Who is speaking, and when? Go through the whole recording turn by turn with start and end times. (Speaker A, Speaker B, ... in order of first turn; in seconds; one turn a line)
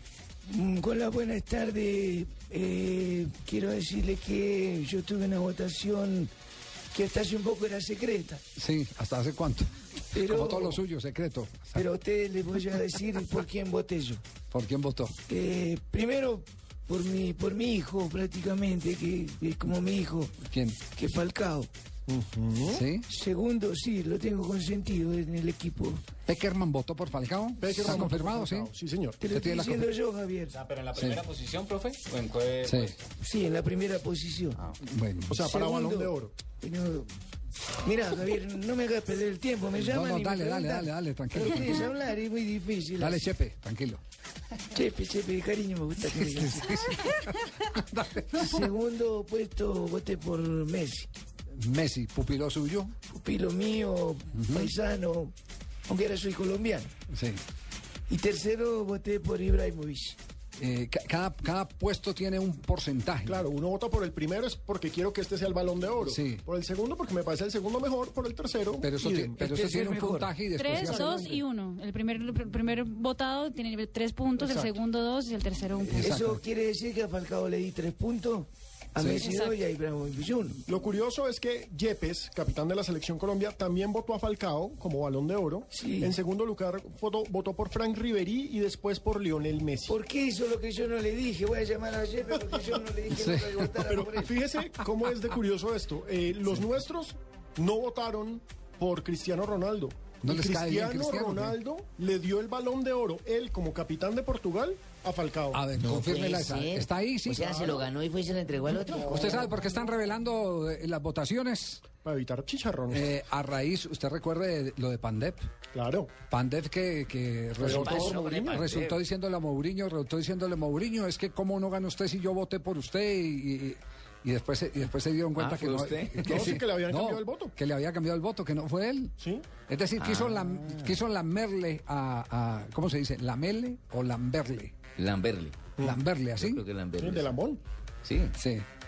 Speaker A: 0.5-6.3
Speaker A: 6.9-8.4
Speaker B: 8.6-11.8
Speaker A: 10.1-10.8
Speaker A: 11.7-14.2
Speaker B: 14.5-15.2
Speaker A: 15.3-21.7
Speaker B: 20.4-20.8
Speaker C: 22.1-22.9
Speaker B: 22.7-23.1
Speaker A: 23.0-26.1
Speaker B: 26.3-28.7
Speaker C: 27.6-29.2
Speaker A: 29.2-30.6
Speaker B: 29.3-29.9
Speaker D: 30.7-32.9
Speaker B: 30.9-31.3
Speaker B: 32.6-33.0
Speaker A: 33.2-34.6
Speaker B: 34.8-35.4
Speaker C: 35.3-36.4
Speaker A: 35.4-37.1
Speaker A: 37.8-43.3
Speaker B: 39.7-41.9
Speaker B: 43.0-44.0
Speaker A: 44.7-46.8
Speaker B: 46.1-48.6
Speaker A: 48.4-51.1
Speaker B: 51.5-52.9
Speaker A: 53.1-55.3
Speaker B: 54.4-54.8
Speaker A: 55.9-56.9
Speaker B: 57.1-57.4
Speaker A: 58.1-60.2
Speaker B: 60.6-63.4
Speaker C: 63.3-69.4
Speaker B: 66.0-66.4
Speaker B: 68.8-71.4
Speaker A: 69.4-70.3
Speaker E: 70.6-76.2
Speaker C: 70.7-71.4
Speaker C: 74.4-74.7
Speaker B: 75.8-76.4
Speaker A: 76.0-80.6
Speaker B: 79.0-79.2
Speaker E: 79.2-79.6
Speaker C: 80.7-90.0
Speaker A: 85.7-86.2
Speaker A: 89.9-94.4
Speaker B: 93.1-93.6
Speaker C: 93.8-105.7
Speaker B: 100.2-101.6
Speaker B: 105.5-107.9
Speaker F: 105.8-109.4
Speaker C: 108.8-109.6
Speaker B: 109.0-111.8
Speaker C: 112.0-113.1
Speaker B: 112.9-115.5
Speaker C: 115.7-116.1
Speaker B: 116.3-129.2
Speaker C: 117.6-118.7
Speaker F: 117.7-119.0
Speaker F: 125.4-126.5
Speaker C: 126.3-127.5
Speaker C: 129.2-129.5
Speaker B: 129.7-134.8
Speaker F: 130.0-131.0
Speaker F: 135.0-135.7
Speaker B: 135.8-136.6
Speaker F: 136.4-137.3
Speaker C: 137.0-137.6
Speaker F: 138.0-138.3
Speaker B: 138.3-138.7